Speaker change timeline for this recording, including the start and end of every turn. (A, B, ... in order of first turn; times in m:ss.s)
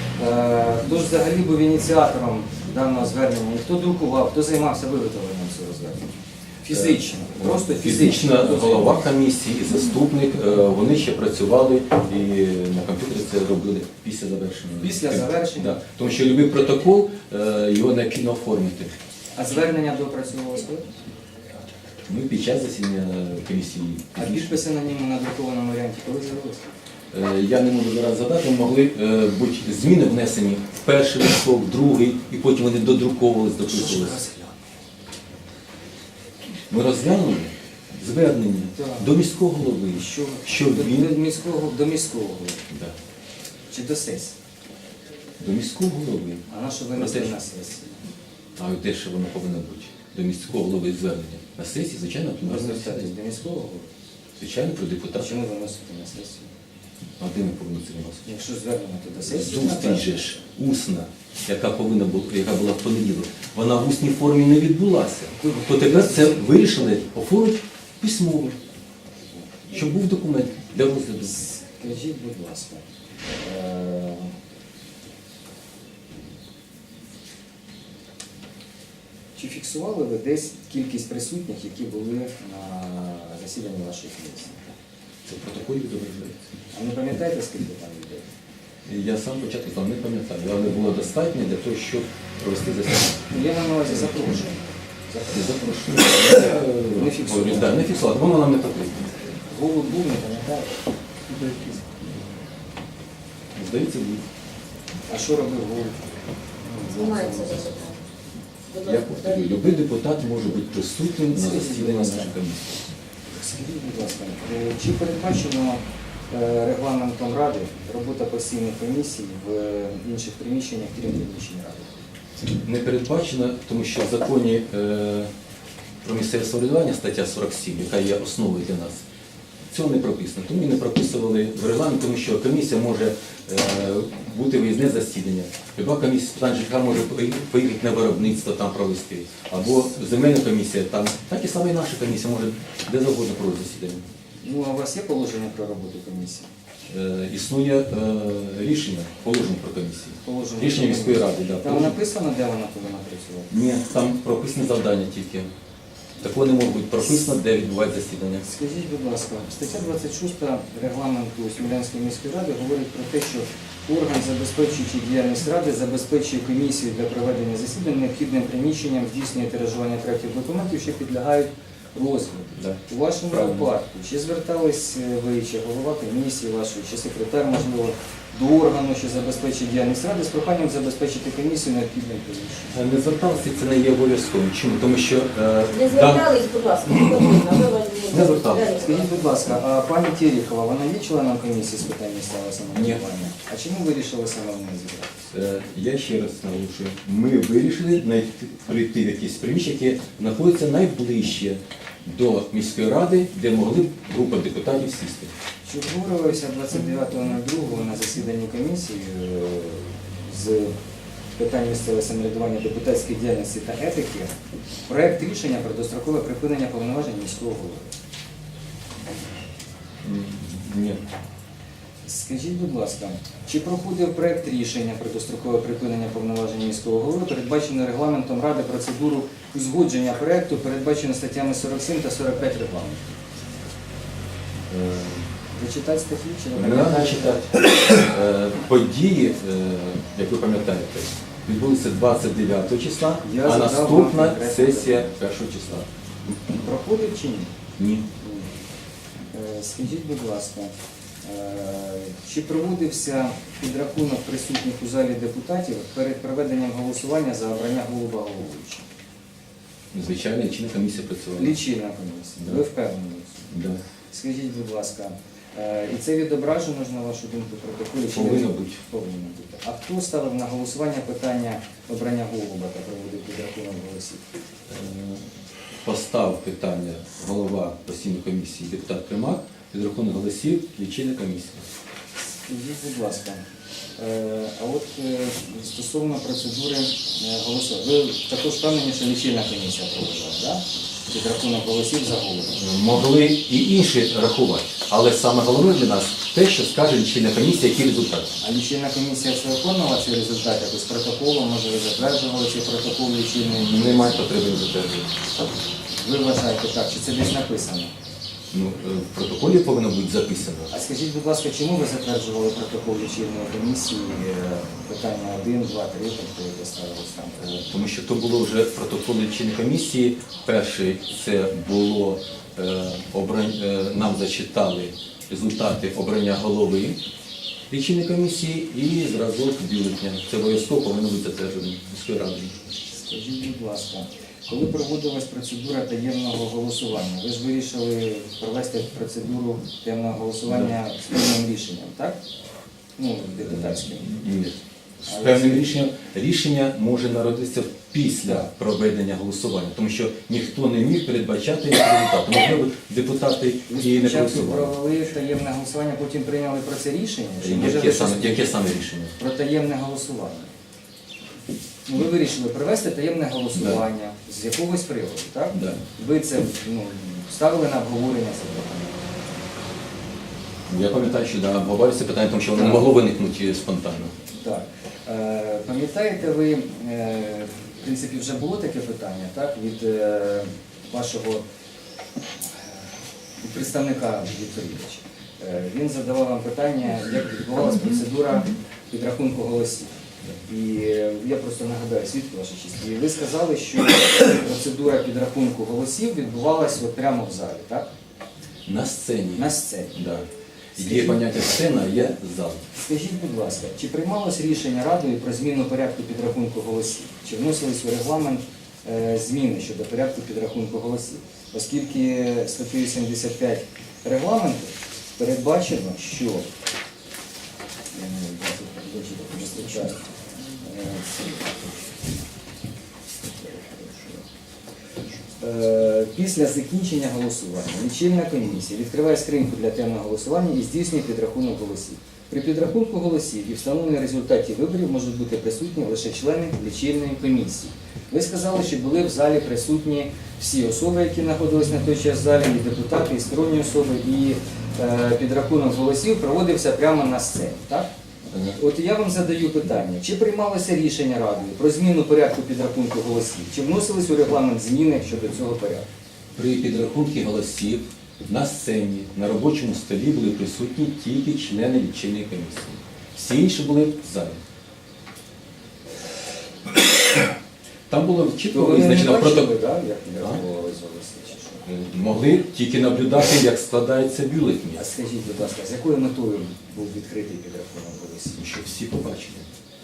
0:00.2-0:09.0 A
0:06.7-0:18.9 B
0:14.8-0:16.0 A
0:19.4-0:20.9 A
0:22.1-0:24.6 B
0:24.2-0:26.7 A
0:27.1-0:34.2 B
0:33.7-0:34.6 A
0:36.7-0:41.2 B
0:38.8-0:39.1 A
0:39.9-0:42.6 A
0:42.7-0:43.0 B
0:43.7-0:44.4 A
0:45.4-0:46.4 B
0:46.5-0:48.0 A
0:47.0-0:47.4 B
0:48.6-0:53.1 B
0:52.4-0:53.9 A
0:54.4-0:55.3 B
0:55.1-0:56.5 A
0:57.2-0:58.2 B
0:58.2-1:00.4 A
0:59.2-1:08.6 B
1:05.4-1:06.6 A
1:09.7-1:11.4 B
1:11.2-1:12.8 A
1:13.4-1:14.3 A
1:19.4-1:24.7 A
1:25.3-1:26.4 B
1:26.7-1:28.3 A
1:28.8-1:33.2 B
1:33.3-1:35.6 A
1:35.3-1:39.1 B
1:36.9-1:38.0 A
1:39.5-1:40.8 A
1:43.6-1:44.2 B
1:45.1-1:46.0 A
1:46.6-1:47.8 A
1:46.9-1:48.0 C
1:48.7-1:49.6 C
1:48.8-1:52.9 B
1:51.3-1:52.4 A
1:53.3-2:02.1 A
2:02.6-2:05.3 B
2:06.0-2:09.0 B
2:09.7-2:24.1 B
2:24.4-2:26.5 A
2:26.9-2:32.0 B
2:30.2-2:33.5 A
2:33.5-2:35.5 B
2:36.2-2:38.4 B
2:38.4-3:02.8 A
2:52.6-2:53.7 B
3:02.7-3:06.3 B
3:05.7-3:09.1 C
3:06.9-3:07.5 B
3:08.1-3:08.8 B
3:08.8-3:15.2 A
3:12.7-3:13.0 B
3:15.3-3:25.3 B
3:25.7-3:30.7 A
3:31.4-3:34.3 A
3:34.9-3:37.9 A
3:40.0-3:41.0 B
3:42.0-3:53.1 A
3:54.7-3:55.3 B
3:55.5-3:57.5 A
3:56.6-4:06.4 B
4:03.2-4:05.2 A
4:06.6-4:07.5 A
4:07.8-4:08.1 B
4:08.2-4:08.6 A
4:09.3-4:18.8 A
4:19.9-4:21.6 B
4:21.4-4:23.5 A
4:23.5-4:23.8 B
4:24.1-4:34.2 A
4:28.1-4:28.8 B
4:34.7-4:41.7 B
4:42.4-4:43.4 A
4:44.0-4:52.5 A
4:52.6-4:58.4 B
4:58.4-5:04.2 A
5:03.6-5:05.1 B
5:06.0-5:07.9 A
5:08.5-5:10.7 B
5:10.7-5:17.6 A
5:17.4-5:27.0 B
5:27.7-5:32.6 B
5:32.9-5:42.2 A
5:43.0-5:44.1 A
5:43.4-5:54.7 B
5:45.1-5:45.7 A
5:53.7-5:58.6 A
5:57.4-5:59.1 B
5:59.2-6:00.5 A
6:01.9-6:09.0 A
6:03.6-6:03.8 B
6:05.5-6:05.8 B
6:10.7-6:14.1 B
6:12.6-6:12.8 A
6:14.3-6:21.4 A
6:22.5-6:22.8 A
6:23.4-6:29.9 A
6:30.5-6:37.9 A
6:38.7-6:40.2 B
6:39.4-6:40.0 A
6:40.8-6:41.2 A
6:40.8-6:42.6 B
6:42.8-6:56.5 A
6:57.9-7:01.8 A
7:03.4-7:04.2 A
7:05.4-7:27.9 A
7:28.3-7:28.6 B
7:28.6-7:35.9 A
7:36.4-7:44.4 B
7:47.9-7:49.5 B
7:48.5-7:51.7 A
7:50.1-7:50.4 B
7:51.7-7:54.8 B
7:54.8-7:58.4 A
7:58.4-7:59.5 B